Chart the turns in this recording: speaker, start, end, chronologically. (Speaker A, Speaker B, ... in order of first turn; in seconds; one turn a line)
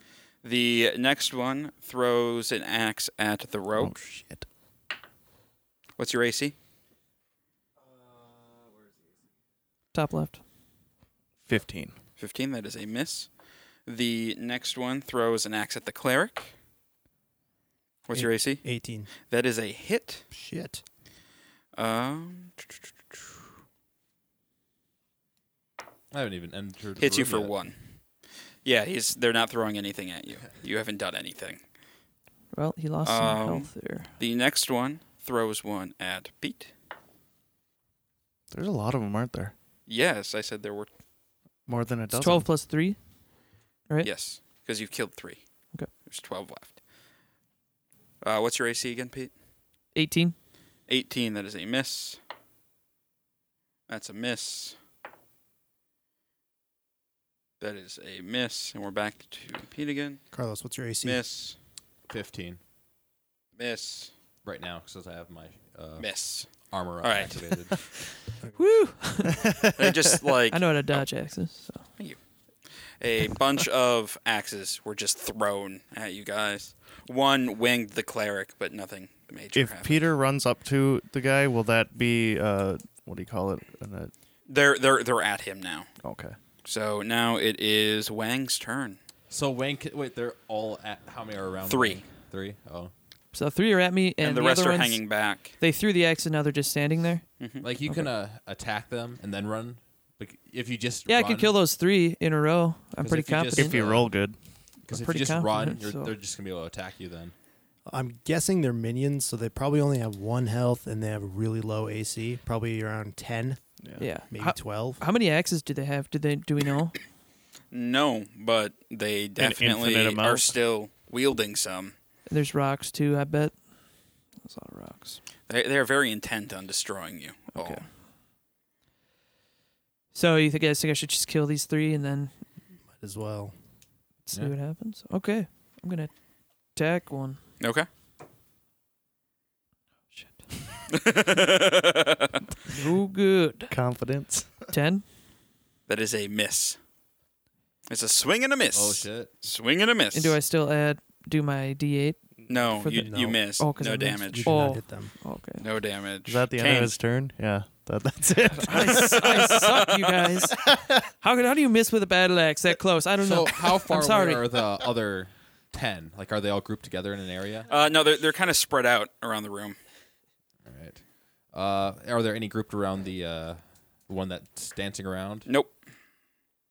Speaker A: 0.4-4.0
Speaker B: 3.8-4.5
Speaker A: 6.0-6.5
Speaker C: 9.9-10.4
Speaker B: 11.4-11.9
Speaker A: 12.2-13.3
Speaker A: 13.9-16.5
Speaker A: 18.1-18.6
Speaker D: 18.1-19.1
Speaker A: 19.1-20.2
Speaker D: 20.3-20.8
Speaker A: 21.7-23.3
Speaker E: 26.1-27.5
Speaker A: 27.0-27.8
Speaker A: 28.6-31.6
Speaker C: 32.5-34.1
Speaker A: 33.0-36.7
Speaker B: 38.5-39.5
Speaker A: 39.9-40.9
Speaker B: 41.7-42.5
Speaker C: 42.1-43.0
Speaker A: 44.0-46.8
Speaker A: 48.2-49.3
Speaker C: 49.9-50.3
Speaker A: 50.9-52.2
Speaker A: 53.9-54.8
Speaker A: 57.6-60.2
Speaker D: 60.3-61.2
Speaker A: 61.0-61.5
Speaker E: 62.1-62.6
Speaker A: 63.6-64.1
Speaker E: 64.4-68.0
Speaker A: 66.0-67.7
Speaker C: 68.5-69.5
Speaker A: 69.7-71.0
Speaker C: 70.5-72.0
Speaker A: 72.8-80.1
Speaker B: 79.5-84.1
Speaker A: 84.5-85.9
Speaker B: 86.0-86.3
Speaker A: 86.6-89.0
Speaker E: 89.3-92.9
Speaker A: 91.7-92.0
Speaker C: 93.3-98.1
Speaker A: 94.2-95.6
Speaker E: 97.6-101.5
Speaker C: 101.1-103.8
Speaker E: 103.0-104.1
Speaker B: 103.5-104.3
Speaker E: 104.8-107.3
Speaker C: 104.9-106.1
Speaker D: 107.8-113.6
Speaker C: 114.0-117.0
Speaker D: 114.3-115.0
Speaker A: 117.7-121.9
Speaker B: 119.4-120.5
Speaker C: 122.3-125.2
Speaker A: 125.5-127.8
Speaker C: 127.5-127.9
Speaker C: 130.1-132.3
Speaker D: 132.9-133.5
Speaker C: 134.2-137.4
Speaker A: 137.6-137.8
Speaker C: 140.1-140.7
Speaker A: 140.9-142.4
Speaker C: 142.7-143.7
Speaker B: 143.7-144.7
Speaker C: 144.7-145.0
Speaker A: 145.9-146.8
Speaker A: 147.9-150.4
Speaker E: 148.7-149.3
Speaker C: 150.1-152.2
Speaker A: 152.5-154.8
Speaker C: 152.7-155.6
Speaker D: 152.9-153.4
Speaker D: 154.3-155.2
Speaker A: 155.6-156.9
Speaker B: 156.2-159.4
Speaker C: 158.6-164.4
Speaker A: 159.1-160.1
Speaker B: 160.7-160.9
Speaker E: 163.2-167.7
Speaker A: 167.7-169.8
Speaker E: 170.6-175.5
Speaker A: 175.4-175.8